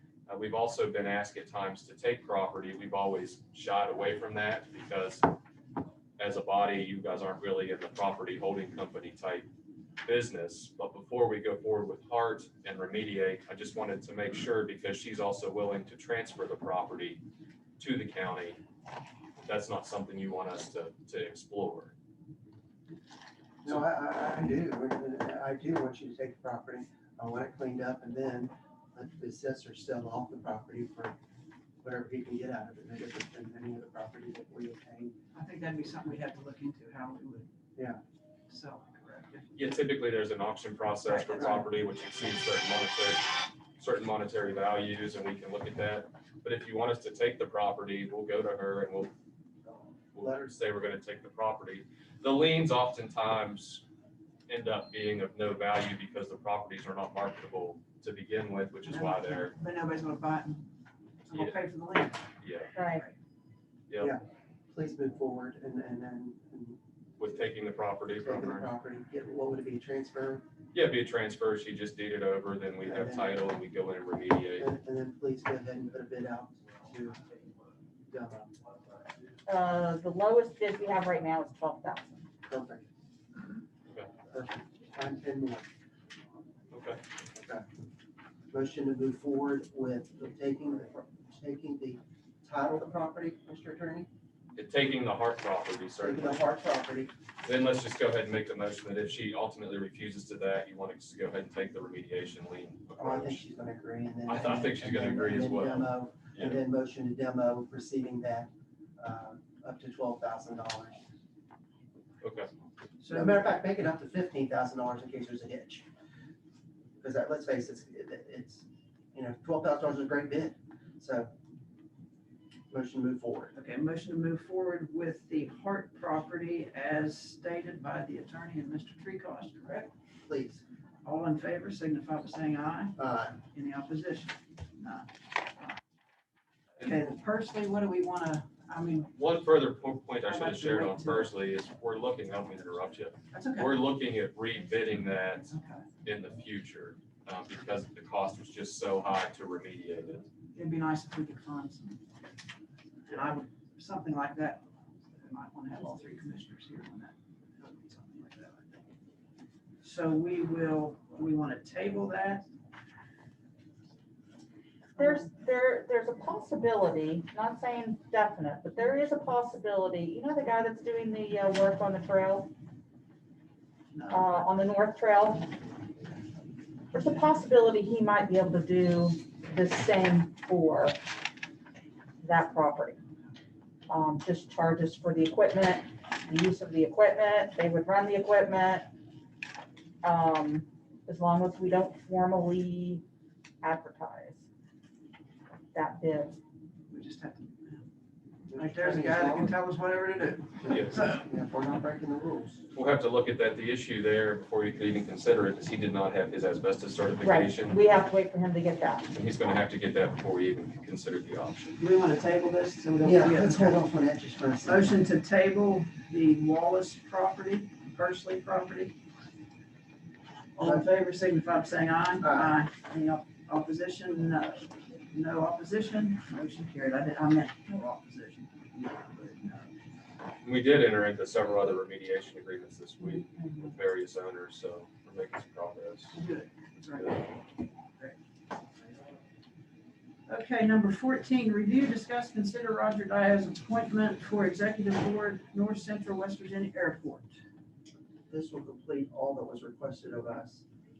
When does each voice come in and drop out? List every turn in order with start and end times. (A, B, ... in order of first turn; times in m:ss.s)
0:00.3-0:05.2 A
0:06.2-0:09.5 A
0:10.0-0:17.2 A
0:17.8-0:18.6 A
0:19.4-0:21.9 A
0:23.6-0:31.2 B
0:31.8-0:35.1 B
0:35.3-0:37.5 C
0:37.8-0:38.0 B
0:38.5-0:39.5 C
0:39.6-0:49.1 A
0:41.1-0:41.7 B
0:50.1-0:53.8 A
0:50.2-0:50.5 B
0:54.5-0:59.5 A
0:58.8-1:00.7 C
1:01.2-1:03.1 C
1:01.3-1:01.6 A
1:02.4-1:02.7 A
1:02.8-1:03.0 D
1:03.9-1:04.2 A
1:04.0-1:06.8 B
1:07.2-1:08.7 A
1:08.2-1:10.4 B
1:10.7-1:14.7 A
1:12.8-1:13.3 B
1:14.6-1:17.2 B
1:18.1-1:18.6 B
1:19.4-1:22.3 D
1:22.4-1:22.8 B
1:24.3-1:25.7 B
1:26.7-1:27.0 A
1:27.3-1:27.6 B
1:28.5-1:34.1 B
1:34.5-1:36.4 A
1:36.0-1:37.1 B
1:37.4-1:43.4 A
1:43.0-1:51.0 B
1:44.3-1:46.6 A
1:52.2-1:52.5 A
1:53.0-1:53.4 C
1:53.1-1:55.9 B
1:57.0-2:01.3 B
2:02.7-2:03.5 B
2:03.5-2:09.9 C
2:10.2-2:10.6 B
2:11.0-2:13.0 C
2:13.0-2:13.4 B
2:13.5-2:15.7 C
2:16.8-2:19.1 C
2:19.1-2:30.3 A
2:20.2-2:21.3 C
2:23.3-2:23.8 C
2:25.5-2:25.8 C
2:30.5-2:32.0 C
2:33.0-2:34.6 C
2:35.1-2:38.8 C
2:39.8-2:42.5 C
2:45.0-2:52.5 D
2:53.9-2:54.4 C
2:54.1-2:55.5 D
2:56.9-3:01.0 D
3:02.2-3:03.0 D
3:03.9-3:08.9 D
3:10.0-3:13.0 D
3:13.6-3:14.4 D
3:15.7-3:16.4 D
3:16.9-3:17.8 C
3:18.5-3:19.6 B
3:18.5-3:21.2 C
3:20.6-3:22.6 B
3:20.7-3:21.0 A
3:22.7-3:27.8 A
3:27.2-3:29.1 D
3:29.1-3:31.8 A
3:31.8-3:33.8 C
3:33.0-3:35.0 B
3:34.6-3:39.0 C
3:40.5-3:49.7 C
3:40.6-3:40.8 B
3:42.2-3:42.6 B
3:50.4-3:56.2 A
3:56.1-3:57.4 C
3:56.9-3:57.3 A
4:00.2-4:07.4 C
4:08.3-4:10.6 B